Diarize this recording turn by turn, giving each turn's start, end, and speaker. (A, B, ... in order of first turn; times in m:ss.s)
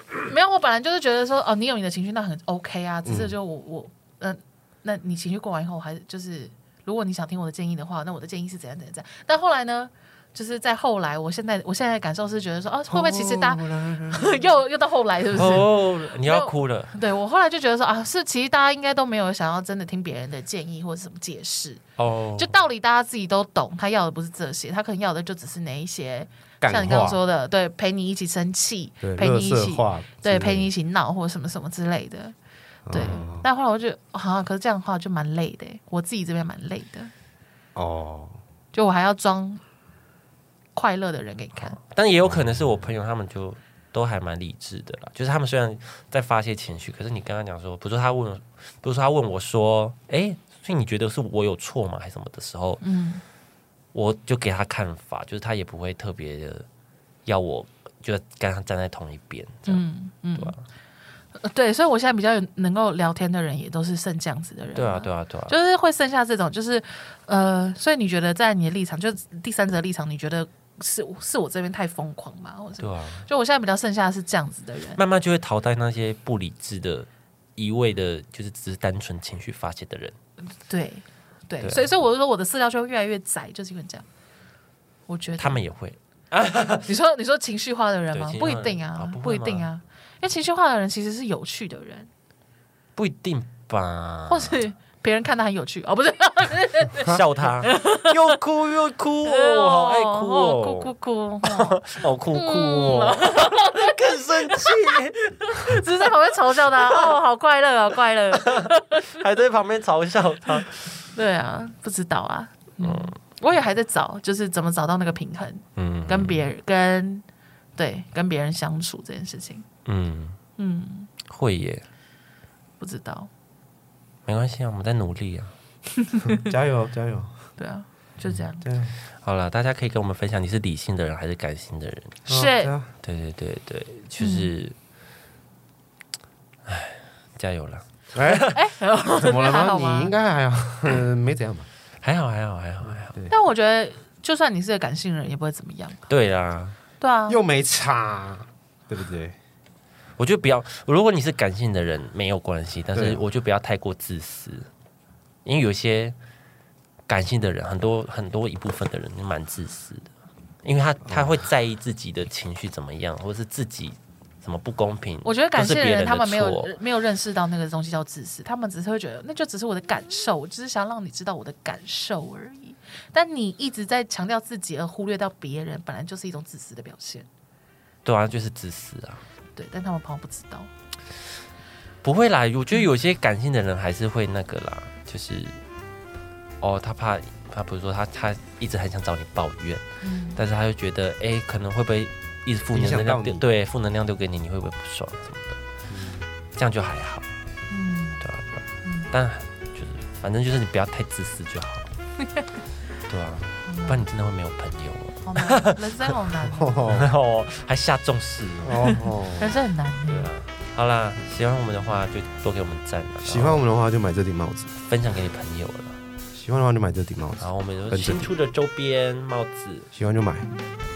0:00.2-0:21.8 A
0:03.0-0:03.4 B
0:12.9-0:14.3 B
0:15.4-0:16.9 C
0:22.0-0:22.5 C
0:22.4-0:32.4 A
0:26.6-0:27.2 B
0:29.0-0:30.7 B
0:32.9-0:33.5 B
0:32.9-0:37.1 A
0:37.8-0:38.4 B
0:38.7-0:39.6 A
0:40.8-0:41.8 A
0:41.8-0:52.8 C
0:42.3-0:42.8 B
0:52.8-0:53.2 A
0:53.9-0:56.7 C
0:57.3-0:59.8 C
0:59.7-1:00.6 A
1:00.4-1:00.6 C
1:01.4-1:15.0 A
1:04.8-1:05.6 C
1:12.8-1:13.3 C
1:15.0-1:20.2 C
1:20.6-1:24.0 A
1:25.1-1:25.6 A
1:25.4-1:26.9 C
1:26.9-1:32.1 A
1:28.1-1:29.7 C
1:33.0-1:34.6 C
1:34.3-1:38.4 A
1:37.0-1:45.8 C
1:39.3-1:49.2 A
1:48.3-1:51.1 C
1:51.1-1:57.2 A
1:52.8-1:53.2 C
1:55.8-1:56.4 C
1:57.8-1:59.7 A
1:59.9-2:00.4 C
2:00.6-2:01.1 A
2:01.3-2:01.8 C
2:02.8-2:03.3 A
2:04.3-2:05.5 C
2:06.0-2:06.4 A
2:06.3-2:07.4 B
2:07.6-2:08.6 A
2:08.6-2:08.9 B
2:09.2-2:12.2 C
2:12.3-2:12.9 B
2:12.3-2:12.7 A
2:13.0-2:14.8 C
2:14.2-2:14.5 A
2:16.7-2:18.6 C
2:18.1-2:18.6 B
2:18.5-2:20.1 A
2:19.2-2:21.7 B
2:22.0-2:23.2 C
2:23.1-2:23.3 B
2:23.3-2:26.0 A
2:26.1-2:26.8 C
2:27.0-2:27.4 A
2:27.3-2:29.4 B
2:30.2-2:34.7 C
2:32.9-2:33.2 B
2:35.4-2:36.2 C
2:37.1-2:40.1 C
2:40.6-2:46.7 C
2:41.1-2:41.3 B
2:45.2-2:57.3 A
2:58.0-2:59.2 C
2:59.6-3:00.7 A
3:02.0-3:05.6 C
3:06.6-3:09.8 C
3:10.0-3:10.4 A
3:10.4-3:15.6 C
3:12.7-3:13.4 B
3:15.9-3:16.3 B
3:16.6-3:17.3 C
3:17.7-3:18.2 A
3:18.2-3:21.9 C
3:18.8-3:19.1 A
3:23.1-3:26.1 C
3:23.7-3:24.1 A
3:25.2-3:26.8 A
3:26.5-3:27.1 B
3:26.9-3:28.8 C
3:28.6-3:29.6 B
3:28.8-3:30.3 A
3:30.1-3:33.6 C
3:33.2-3:34.7 B
3:34.9-3:36.0 C
3:36.3-3:38.3 B
3:37.4-3:39.9 C
3:39.9-3:40.5 B